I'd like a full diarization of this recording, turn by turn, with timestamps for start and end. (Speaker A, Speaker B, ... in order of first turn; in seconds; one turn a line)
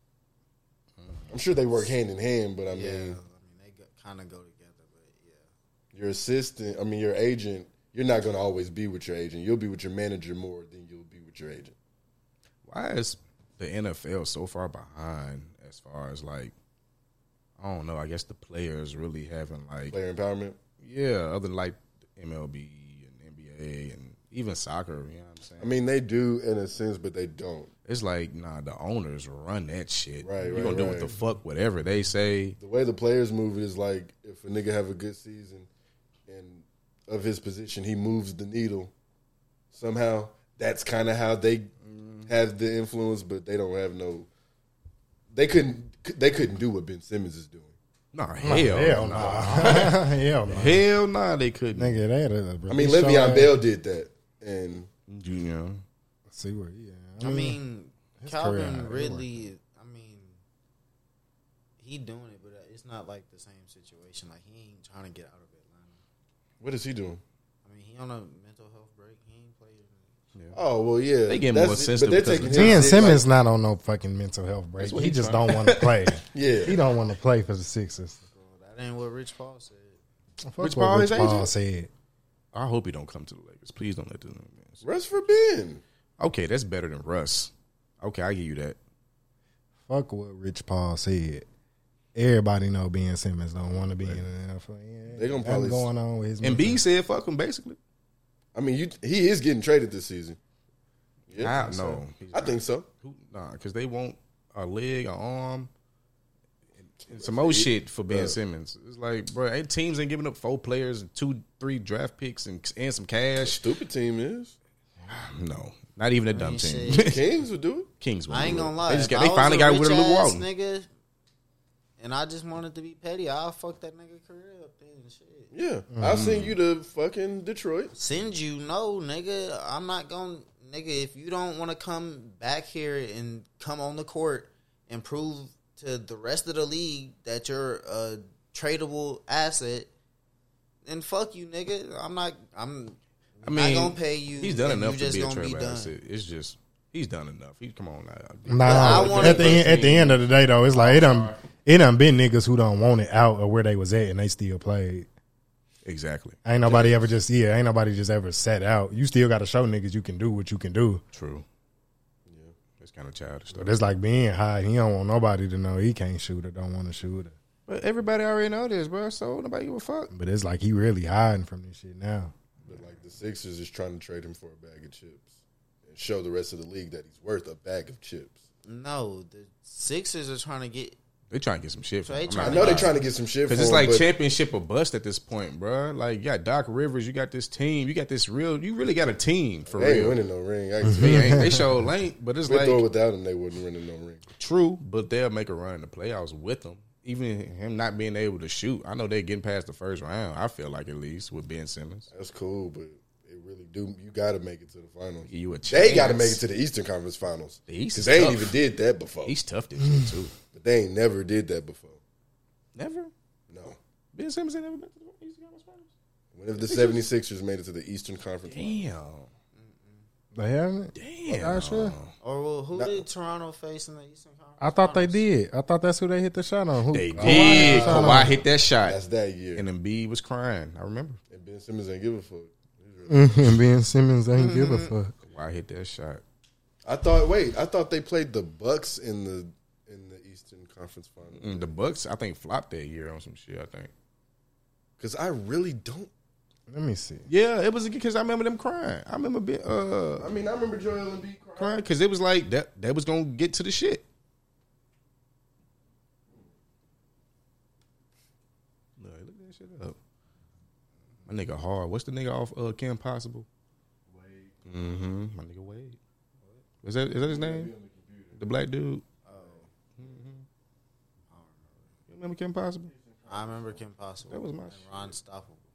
Speaker A: 1.0-1.3
Speaker B: 1.3-3.2
Speaker C: 2.7-5.5
Speaker B: 5.9-11.8
Speaker A: 12.7-16.5
Speaker A: 17.6-20.0
Speaker B: 19.9-20.6
Speaker A: 20.8-25.7
Speaker B: 25.6-27.7
Speaker A: 27.9-32.6
Speaker B: 30.2-31.1
Speaker B: 32.6-35.7
Speaker B: 36.3-38.9
Speaker B: 39.7-41.7
Speaker A: 41.9-42.3
Speaker B: 42.3-44.3
Speaker B: 45.3-47.8
Speaker A: 48.1-52.0
Speaker D: 48.4-50.9
Speaker B: 49.1-49.8
Speaker D: 51.8-53.5
Speaker B: 52.7-54.9
Speaker A: 55.1-55.8
Speaker D: 56.3-57.6
Speaker C: 57.2-60.4
Speaker D: 58.2-59.4
Speaker C: 61.8-66.0
Speaker B: 66.6-67.2
Speaker C: 67.6-70.1
Speaker B: 70.5-73.2
Speaker A: 71.3-73.1
Speaker D: 72.5-78.2
Speaker A: 74.8-76.2
Speaker B: 76.3-76.8
Speaker C: 78.3-80.0
Speaker D: 80.4-81.9
Speaker A: 80.6-81.5
Speaker A: 82.5-84.8
Speaker B: 84.8-85.8
Speaker A: 86.2-88.8
Speaker D: 89.9-91.5
Speaker D: 92.2-96.8
Speaker B: 95.1-95.9
Speaker A: 96.4-97.8
Speaker B: 98.5-100.4
Speaker B: 101.3-102.9
Speaker A: 101.4-105.7
Speaker A: 106.8-113.7
Speaker B: 107.1-108.4
Speaker B: 113.4-114.6
Speaker A: 115.1-117.2
Speaker C: 116.3-117.2
Speaker B: 116.9-117.9
Speaker A: 118.0-120.4
Speaker C: 118.3-120.9
Speaker C: 122.0-125.5
Speaker B: 125.5-127.9
Speaker D: 125.9-126.2
Speaker A: 126.0-126.6
Speaker C: 127.9-139.9
Speaker C: 140.8-145.9
Speaker A: 143.4-150.2
Speaker D: 148.5-155.1
Speaker C: 148.7-149.8
Speaker A: 150.7-151.4
Speaker A: 155.8-157.1
Speaker D: 156.4-161.0
Speaker A: 161.1-161.4
Speaker B: 162.3-162.6
Speaker A: 162.8-163.8
Speaker D: 163.5-167.3
Speaker A: 167.7-170.1
Speaker D: 170.1-172.3
Speaker B: 172.6-175.3
Speaker B: 175.9-178.4
Speaker C: 178.7-181.0
Speaker A: 181.3-190.2
Speaker C: 182.1-182.9
Speaker B: 182.4-184.1
Speaker B: 189.7-191.6
Speaker D: 190.8-191.8
Speaker A: 190.9-192.8
Speaker B: 192.5-194.2
Speaker A: 194.4-202.1
Speaker B: 202.1-209.3
Speaker A: 205.3-206.4
Speaker A: 207.7-208.6
Speaker A: 209.2-210.3
Speaker B: 210.5-212.0
Speaker A: 212.8-213.1
Speaker B: 213.5-213.8
Speaker A: 214.2-215.9
Speaker B: 216.3-218.8
Speaker A: 216.6-217.1
Speaker A: 218.5-219.3
Speaker C: 219.6-220.1
Speaker D: 220.3-221.9
Speaker A: 220.9-222.1
Speaker C: 222.2-225.2
Speaker B: 222.7-223.1
Speaker D: 224.6-228.4
Speaker A: 226.9-229.0
Speaker B: 227.2-229.6
Speaker A: 229.6-231.2
Speaker B: 231.3-233.7
Speaker D: 233.1-235.1
Speaker C: 234.3-234.9
Speaker A: 235.2-236.2
Speaker B: 236.8-241.8
Speaker A: 241.4-243.9
Speaker B: 245.0-246.1
Speaker D: 246.7-247.2
Speaker A: 247.3-250.3
Speaker B: 250.2-251.8
Speaker A: 251.6-254.1
Speaker A: 259.0-260.0
Speaker A: 261.3-263.5
Speaker B: 264.1-264.6
Speaker A: 264.7-266.0
Speaker A: 266.8-267.7
Speaker B: 267.3-268.4
Speaker A: 268.4-269.1
Speaker C: 269.2-269.7
Speaker B: 269.4-269.7
Speaker A: 270.0-270.5
Speaker C: 271.3-271.9
Speaker A: 272.1-272.9
Speaker B: 272.9-273.8
Speaker C: 273.3-275.6
Speaker A: 274.3-274.8